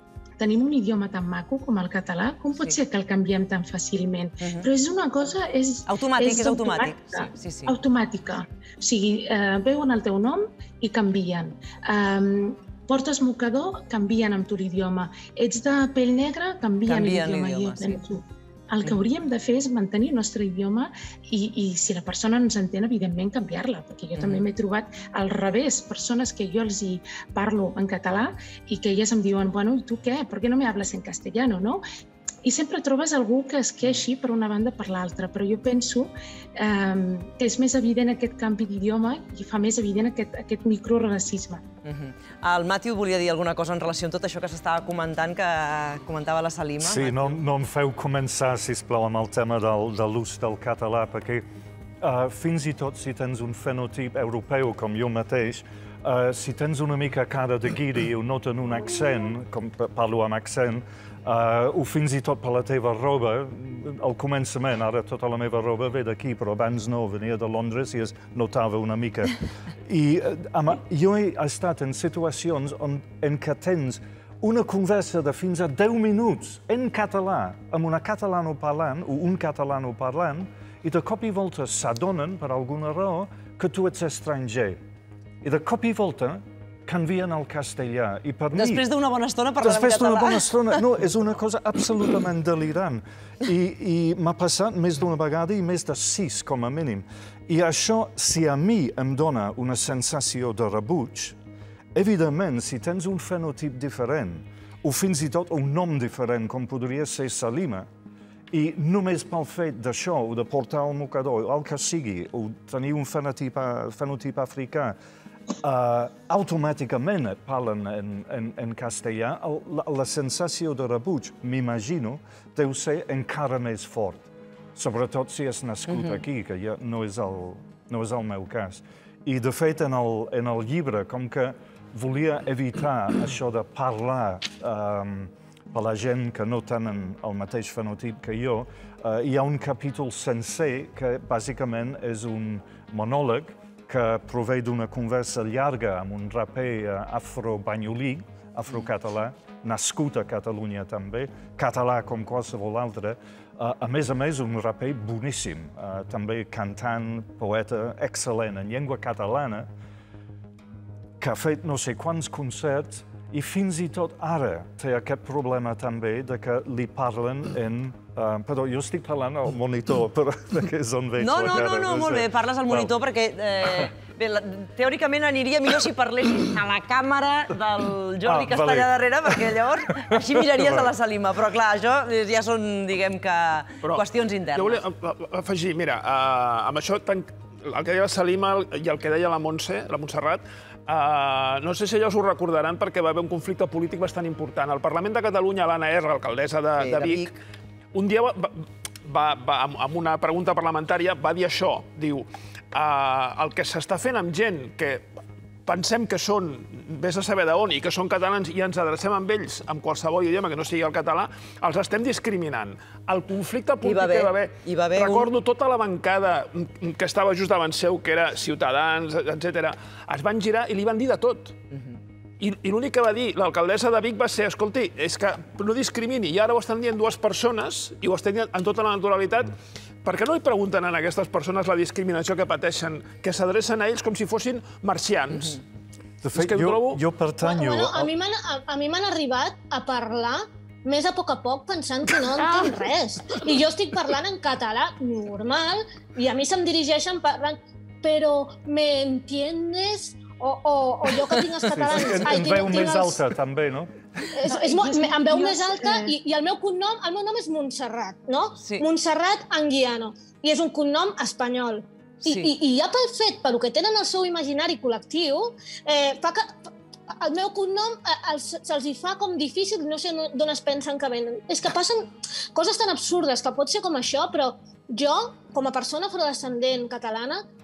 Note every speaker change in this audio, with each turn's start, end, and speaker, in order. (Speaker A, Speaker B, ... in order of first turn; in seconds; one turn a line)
Speaker A: 0.4-31.8
Speaker B: 4.4-4.7
Speaker B: 5.8-7.8
Speaker B: 16.9-18.0
Speaker B: 24.1-24.4
Speaker A: 32.4-41.6
Speaker B: 41.8-47.4
Speaker C: 46.8-51.4
Speaker C: 52.0-84.8
Speaker C: 85.4-88.8
Speaker B: 88.5-90.8
Speaker C: 89.6-101.3
Speaker C: 101.9-107.8
Speaker C: 108.5-115.0
Speaker C: 115.6-159.7
Speaker C: 161.2-172.9
Speaker B: 171.2-184.8
Speaker C: 178.2-180.8
Speaker D: 183.8-197.3
Speaker B: 196.8-197.4
Speaker D: 197.9-205.1
Speaker D: 205.7-221.6
Speaker B: 213.8-215.3
Speaker D: 222.4-235.6
Speaker C: 236.2-238.1
Speaker D: 236.3-237.0
Speaker E: 237.4-253.2
Speaker C: 251.7-254.0
Speaker E: 254.3-277.4
Speaker A: 254.4-256.1
Speaker B: 258.6-258.9
Speaker B: 262.2-262.5